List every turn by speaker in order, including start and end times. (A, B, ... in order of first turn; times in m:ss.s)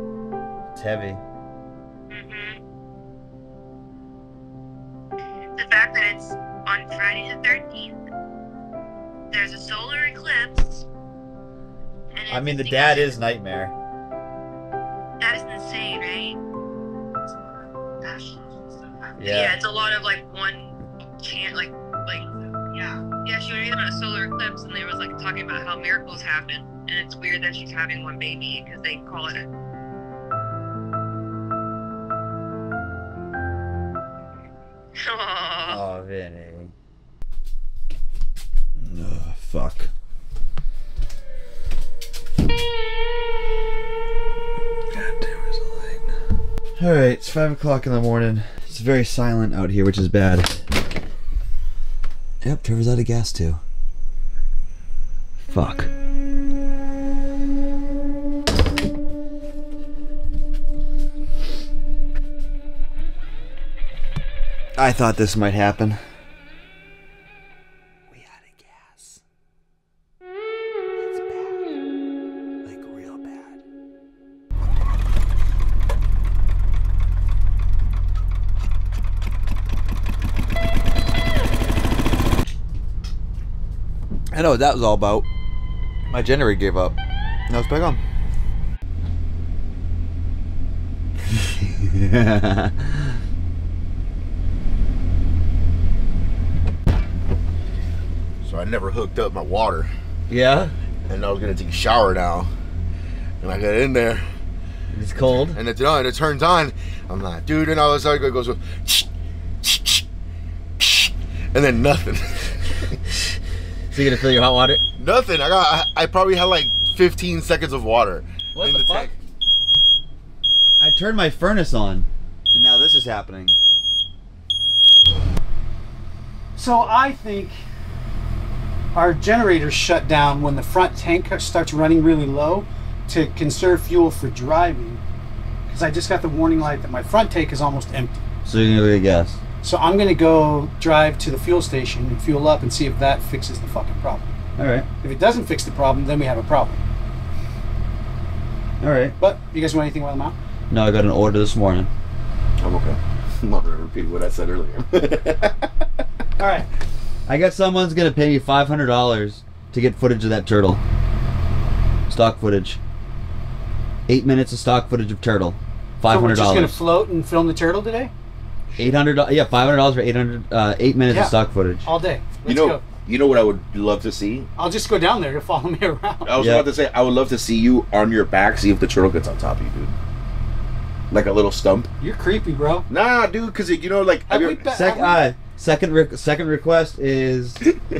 0:00.7-0:01.2 A
0:02.1-0:02.6 B
0:05.6-0:08.0 B
0:09.3-0:10.9 B
0:12.1-0:13.2 B
0:12.3-0:13.7 A
0:15.2-0:16.4 B
0:18.0-0:18.4 B
0:19.0-0:29.5 B
0:19.2-0:19.6 A
0:35.0-0:35.8 B
0:35.6-0:36.7 A
0:38.8-0:39.9 A
0:44.9-0:46.0 A
0:46.8-0:50.6 A
0:52.4-0:53.6 A
0:55.5-0:55.9 A
1:04.8-1:06.0 A
1:08.1-1:09.2 A
1:11.0-1:11.6 A
1:12.6-1:13.6 A
1:24.3-1:25.2 A
1:26.1-1:27.0 A
1:27.5-1:28.0 A
1:31.3-1:33.2 A
1:38.4-1:39.9 C
1:40.3-1:40.7 A
1:41.1-1:42.5 C
1:43.4-1:44.2 C
1:44.9-1:45.6 A
1:45.5-1:49.1 C
1:49.6-1:50.0 C
1:50.8-1:53.0 C
1:53.9-1:54.8 A
1:55.0-1:59.1 C
1:58.6-1:59.2 A
2:00.8-2:03.6 A
2:06.6-2:07.6 D
2:08.9-2:15.0 D
2:15.7-2:18.2 D
2:18.4-2:19.4 A
2:19.6-2:24.3 D
2:24.6-2:24.9 A
2:25.0-2:26.8 D
2:28.8-2:29.2 A
2:29.2-2:30.4 D
2:30.7-2:31.9 A
2:32.6-2:35.7 C
2:36.4-2:36.7 D
2:37.3-2:40.8 A
2:42.1-2:42.8 A
2:44.1-2:46.8 A
2:46.1-2:48.1 D
2:48.8-2:51.9 A
2:51.1-2:52.8 D
2:52.5-2:54.5 C
2:54.6-2:56.3 D
2:56.2-2:59.9 C
2:56.4-2:56.7 A
3:01.1-3:01.9 C
3:02.0-3:02.9 D
3:02.9-3:04.6 C
3:04.3-3:05.2 D
3:04.7-3:07.6 A